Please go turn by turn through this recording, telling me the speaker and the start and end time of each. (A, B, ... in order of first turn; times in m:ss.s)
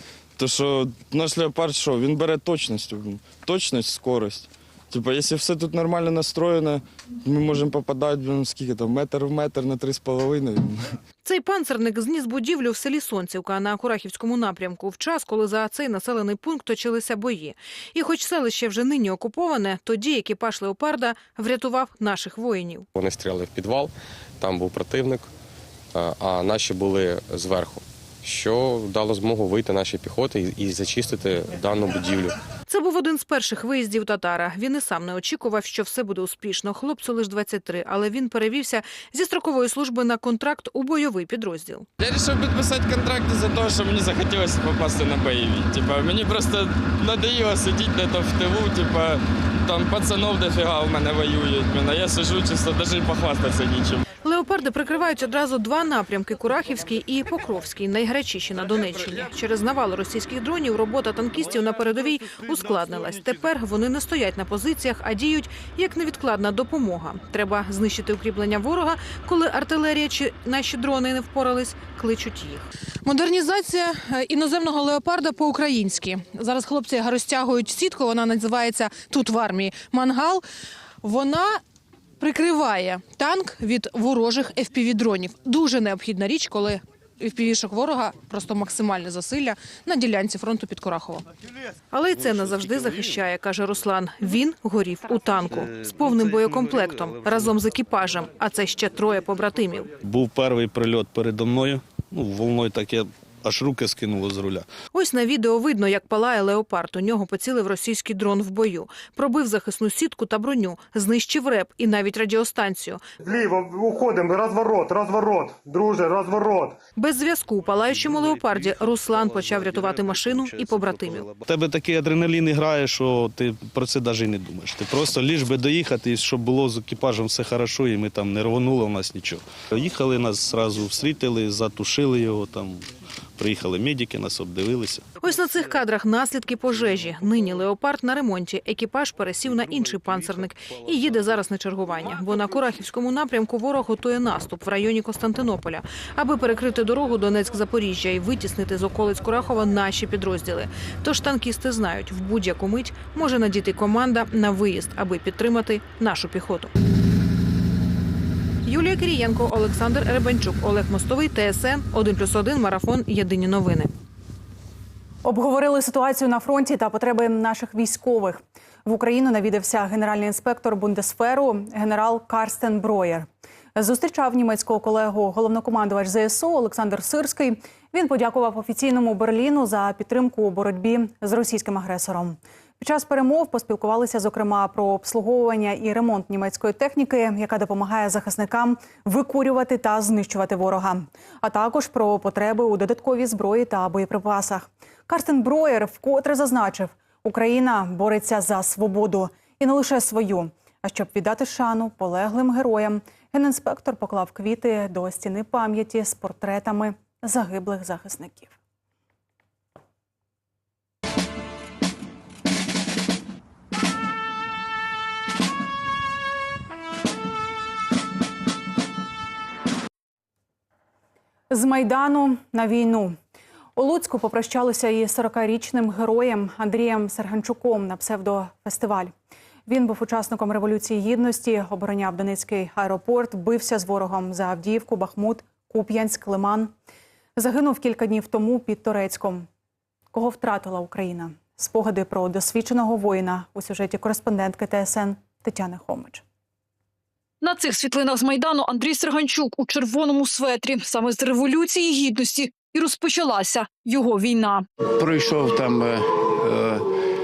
0:00.4-0:10.9 A
0:11.2-0:22.9 B
0:23.0-0:25.3 C
0:25.9-0:32.3 C
0:32.7-0:41.9 B
0:42.0-0:54.1 A
0:54.2-1:20.4 B
1:21.0-1:21.6 B
1:22.2-1:31.3 B
1:31.9-1:39.9 B
1:40.0-1:44.7 D
1:44.9-1:53.0 B
1:53.2-1:56.8 E
1:57.0-2:01.4 B
2:01.4-2:12.8 D
2:13.4-2:15.0 D
2:15.2-2:36.7 B
2:38.6-2:43.9 B
2:45.2-3:28.6 F
3:41.5-3:43.2 F
3:43.8-3:49.1 F
3:49.7-3:56.7 F
3:57.4-3:59.5 F
4:00.1-4:06.2 F
4:07.4-4:14.6 G
4:14.9-4:16.9 H